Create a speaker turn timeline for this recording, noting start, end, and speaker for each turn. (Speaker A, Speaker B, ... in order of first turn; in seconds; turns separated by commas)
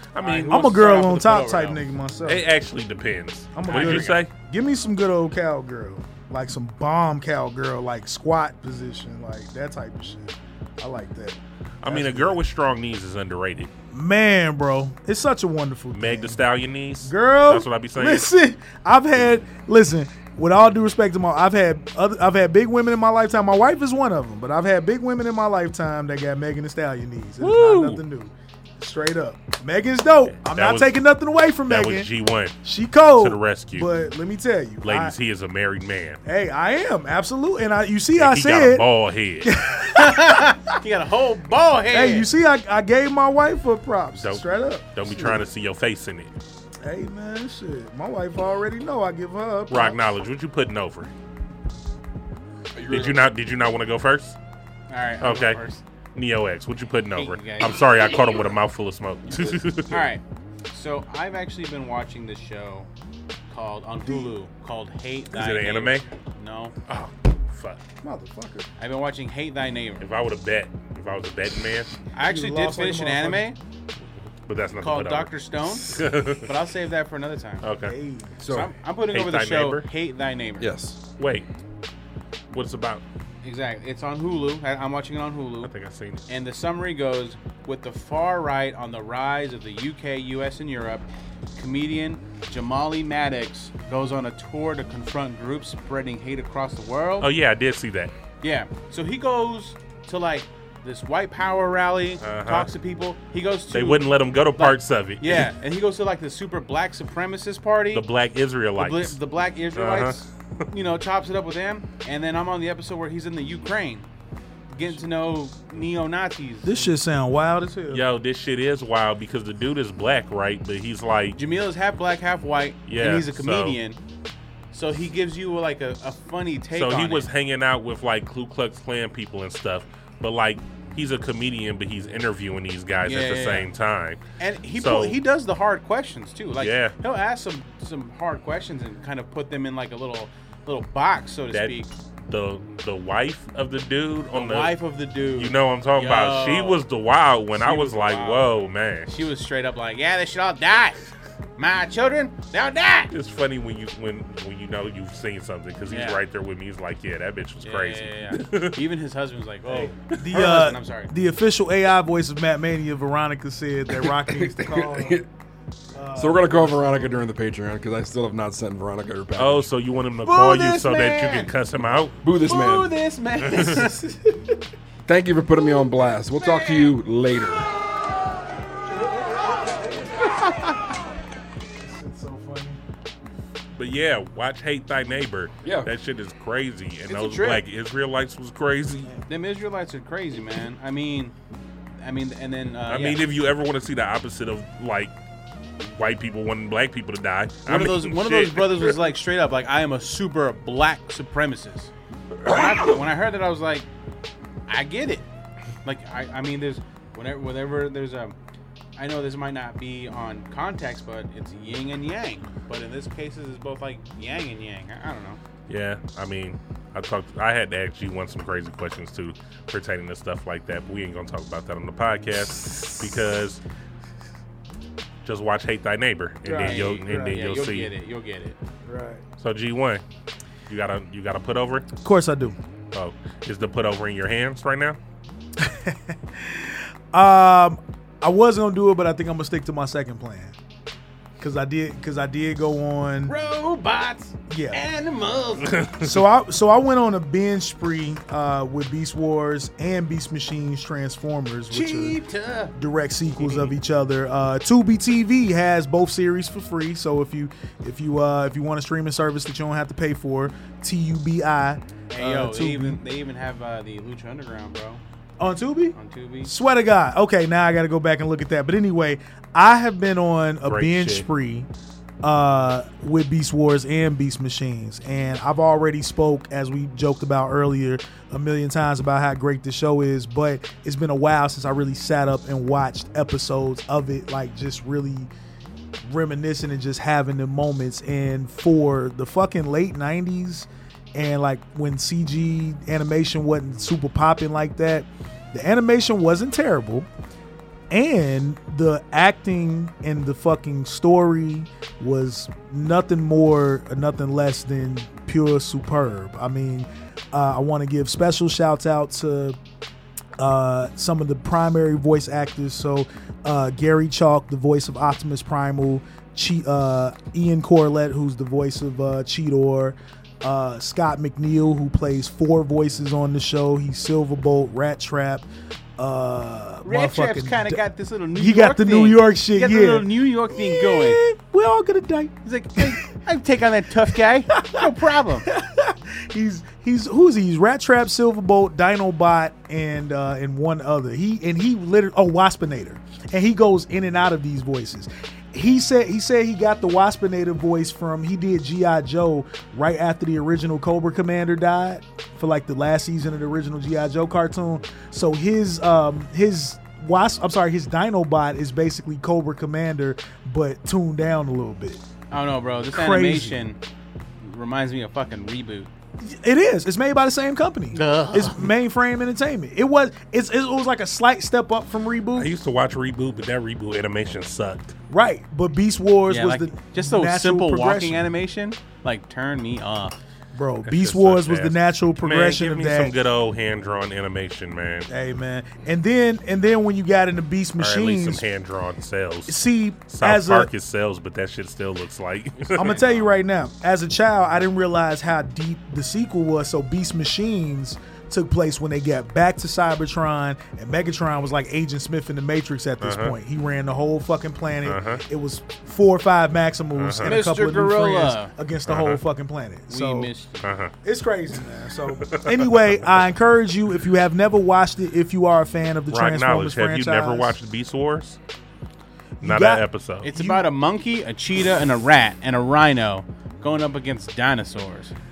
Speaker A: 0.1-1.0, Speaker B: 0.2-1.8, Speaker C: 0.5-2.5, Speaker A: 2.2-4.3, Speaker C: 3.5-12.4, Speaker B: 3.6-4.2, Speaker A: 11.8-13.7, Speaker C: 13.9-16.4, Speaker A: 15.9-18.3, Speaker C: 17.0-32.1, Speaker A: 27.4-28.0, Speaker A: 30.4-31.0, Speaker A: 31.7-32.6, Speaker C: 32.6-35.1, Speaker A: 33.1-33.9, Speaker A: 34.8-36.2, Speaker C: 36.2-38.8, Speaker A: 38.1-39.5, Speaker C: 39.4-40.5, Speaker B: 39.9-42.3, Speaker C: 41.9-45.5, Speaker A: 44.1-46.3, Speaker C: 46.8-50.0, Speaker A: 49.7-51.1, Speaker D: 52.7-53.3, Speaker A: 52.9-54.4, Speaker B: 54.9-55.8, Speaker A: 55.2-55.6, Speaker A: 56.1-60.1, Speaker B: 57.1-58.4, Speaker D: 59.3-59.6, Speaker B: 59.9-62.9, Speaker B: 63.5-66.7, Speaker C: 64.0-64.3, Speaker A: 65.3-66.0, Speaker A: 66.9-67.8, Speaker C: 68.0-68.7, Speaker B: 68.8-70.0, Speaker A: 70.0-71.9, Speaker B: 72.1-73.6, Speaker C: 72.2-73.5, Speaker A: 74.5-76.5, Speaker B: 74.8-77.7, Speaker A: 77.6-77.9, Speaker C: 77.8-78.3, Speaker D: 78.4-78.7, Speaker B: 78.5-80.7, Speaker A: 79.1-79.8, Speaker D: 80.6-81.0, Speaker A: 81.2-81.5, Speaker A: 82.5-83.0, Speaker B: 83.4-85.7, Speaker A: 85.6-86.2, Speaker B: 86.3-91.0, Speaker B: 91.5-97.3, Speaker A: 97.2-98.1, Speaker B: 98.4-108.0, Speaker A: 102.2-102.7, Speaker A: 103.7-105.5, Speaker A: 107.9-109.2, Speaker B: 108.8-114.1, Speaker A: 109.7-110.6, Speaker B: 114.7-116.9, Speaker C: 116.6-118.0, Speaker A: 117.9-121.4, Speaker B: 121.3-124.0, Speaker A: 122.9-123.8, Speaker B: 124.7-127.3, Speaker A: 126.7-134.2, Speaker B: 133.0-133.7, Speaker B: 134.4-141.9, Speaker A: 134.8-135.2, Speaker A: 136.6-136.9, Speaker A: 141.5-141.8, Speaker A: 142.3-144.8, Speaker B: 144.3-146.8, Speaker A: 145.3-149.1, Speaker B: 147.5-151.0, Speaker B: 151.6-153.1, Speaker A: 153.1-158.8, Speaker B: 155.9-156.2, Speaker B: 157.6-161.1, Speaker C: 159.7-165.2, Speaker D: 163.9-165.3, Speaker C: 165.9-167.2, Speaker D: 166.2-169.7, Speaker A: 169.3-172.2, Speaker B: 170.2-171.5, Speaker D: 172.2-172.9, Speaker B: 172.3-174.1, Speaker C: 173.8-174.4, Speaker D: 175.1-177.7, Speaker B: 176.4-176.9, Speaker C: 178.9-180.3, Speaker C: 181.8-182.8, Speaker A: 183.7-189.1, Speaker D: 185.6-185.9, Speaker B: 187.1-187.6, Speaker B: 189.3-191.3, Speaker B: 192.0-193.2, Speaker A: 192.9-195.1, Speaker A: 195.8-198.9, Speaker B: 197.7-201.9, Speaker B: 202.4-203.9, Speaker B: 204.7-205.2, Speaker B: 205.8-208.3, Speaker B: 209.0-215.4, Speaker A: 215.7-223.6, Speaker A: 225.2-227.9, Speaker C: 226.4-227.4, Speaker B: 226.6-228.6, Speaker C: 228.8-229.2, Speaker A: 229.4-230.0, Speaker A: 230.7-231.8, Speaker C: 232.0-232.6, Speaker A: 232.9-235.0, Speaker C: 235.6-240.5, Speaker C: 241.4-243.3, Speaker B: 243.2-245.8, Speaker C: 244.5-244.8, Speaker A: 245.6-246.2, Speaker C: 246.0-252.2, Speaker B: 251.7-252.7, Speaker C: 252.8-263.0, Speaker B: 253.3-253.7, Speaker B: 262.1-265.0, Speaker C: 265.4-271.7, Speaker B: 265.9-266.5, Speaker A: 270.6-271.3, Speaker C: 272.2-285.3, Speaker C: 286.0-297.1, Speaker C: 297.9-309.6, Speaker C: 310.4-325.4, Speaker C: 326.0-327.8, Speaker B: 326.8-331.2, Speaker C: 328.3-333.0, Speaker B: 332.4-335.4, Speaker C: 334.5-334.9, Speaker C: 335.4-362.0, Speaker B: 362.3-363.8, Speaker C: 362.9-363.6, Speaker B: 364.4-365.9, Speaker C: 366.2-372.5, Speaker B: 367.9-368.7, Speaker A: 372.3-374.9, Speaker C: 375.1-378.2, Speaker B: 376.3-380.1, Speaker C: 380.5-383.1, Speaker A: 380.9-385.1, Speaker C: 385.1-388.4, Speaker A: 387.8-393.0, Speaker C: 389.5-390.7, Speaker C: 392.8-410.3, Speaker B: 392.8-393.3, Speaker A: 403.0-403.4, Speaker A: 404.8-405.2, Speaker A: 406.9-407.4, Speaker B: 407.2-408.5, Speaker A: 408.9-409.2, Speaker B: 409.9-410.7, Speaker A: 410.6-410.9, Speaker C: 411.0-417.5, Speaker A: 412.2-413.2, Speaker A: 416.1-418.4, Speaker C: 419.4-420.7, Speaker A: 419.4-420.3, Speaker B: 420.2-425.1